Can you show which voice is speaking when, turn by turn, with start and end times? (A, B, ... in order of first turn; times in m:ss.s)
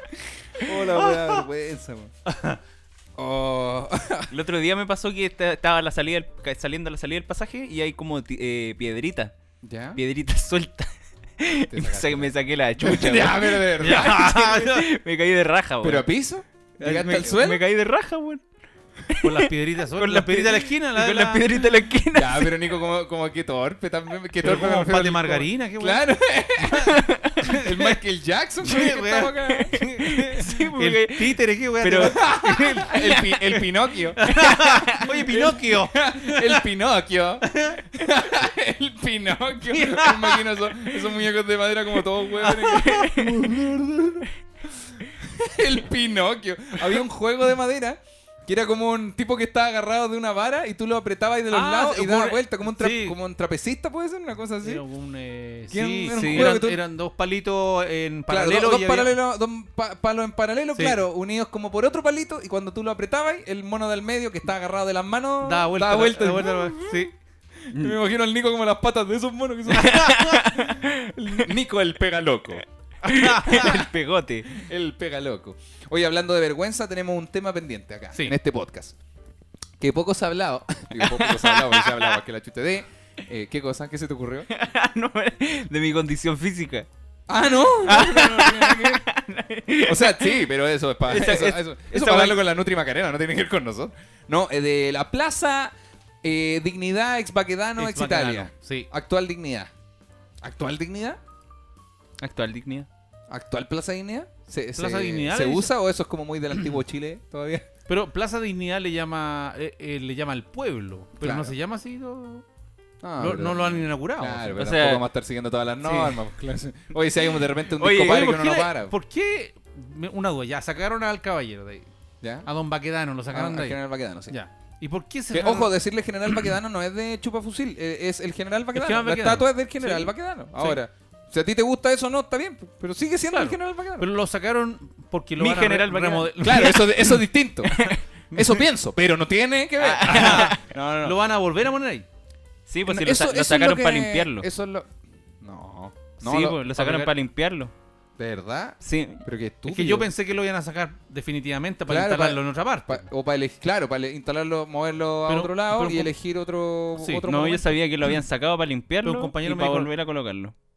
0:00.6-0:02.1 A
0:02.2-0:02.6 B
0:03.2-0:04.3 A
0:04.3-0:09.3 C
0:09.6-0:10.0 A
0:09.9-0:16.1 C
0:11.7-0:14.3 A
0:13.8-0:14.8 B
0:15.8-0:17.6 A
0:16.8-0:18.4 C
0:19.1-0:22.5 C
0:19.2-0:21.4 B
0:22.1-0:26.9 A
0:24.4-0:26.1 B
0:27.4-0:28.0 B
0:27.4-0:29.7 A
0:28.6-0:32.8 B
0:29.8-0:33.3 C
0:32.0-0:34.3 A
0:34.2-0:36.6 B
0:35.3-0:44.2 A
0:37.4-0:37.8 B
0:39.7-0:40.4 B
0:42.4-0:44.2 B
0:42.8-0:43.2 C
0:45.2-0:54.8 A
0:51.5-0:53.2 B
0:54.6-0:59.1 B
0:55.7-0:56.8 A
0:56.1-0:56.6 C
0:58.3-1:06.9 A
1:05.4-1:07.1 B
1:07.7-1:12.6 A
1:09.8-1:10.9 C
1:09.9-1:10.2 B
1:13.0-1:13.8 B
1:13.1-1:14.5 C
1:13.5-1:13.8 A
1:14.6-1:18.9 A
1:19.8-1:24.5 A
1:21.0-1:22.2 C
1:24.5-1:26.9 C
1:27.3-1:29.0 A
1:27.8-1:30.4 C
1:29.8-1:39.7 A
1:31.1-1:32.4 C
1:37.8-1:38.9 B
1:40.4-1:41.2 A
1:42.2-1:42.9 C
1:43.3-1:47.6 A
1:44.8-1:45.7 B
1:47.9-1:52.4 B
1:51.2-1:51.5 A
1:53.0-1:58.9 A
1:53.2-1:54.6 B
1:54.6-1:55.0 C
1:55.8-1:56.1 B
1:57.8-1:58.4 C
1:58.0-2:01.9 B
2:02.2-2:02.5 A
2:02.4-2:03.8 B
2:03.3-2:04.3 A
2:04.3-2:05.7 B
2:05.3-2:14.1 A
2:08.7-2:10.8 B
2:13.3-2:17.1 B
2:15.4-2:16.8 C
2:16.4-2:21.2 A
2:17.8-2:18.6 B
2:19.8-2:20.6 C
2:20.0-2:22.0 B
2:22.7-2:24.5 C
2:22.9-2:24.9 A
2:25.4-2:26.6 A
2:26.2-2:27.7 C
2:26.8-2:27.1 B
2:28.2-2:30.1 A
2:28.8-2:29.2 C
2:29.6-2:33.1 B
2:31.9-2:37.8 A
2:35.3-2:36.1 B
2:37.0-2:37.2 B
2:37.3-2:40.5 C
2:39.0-2:39.9 B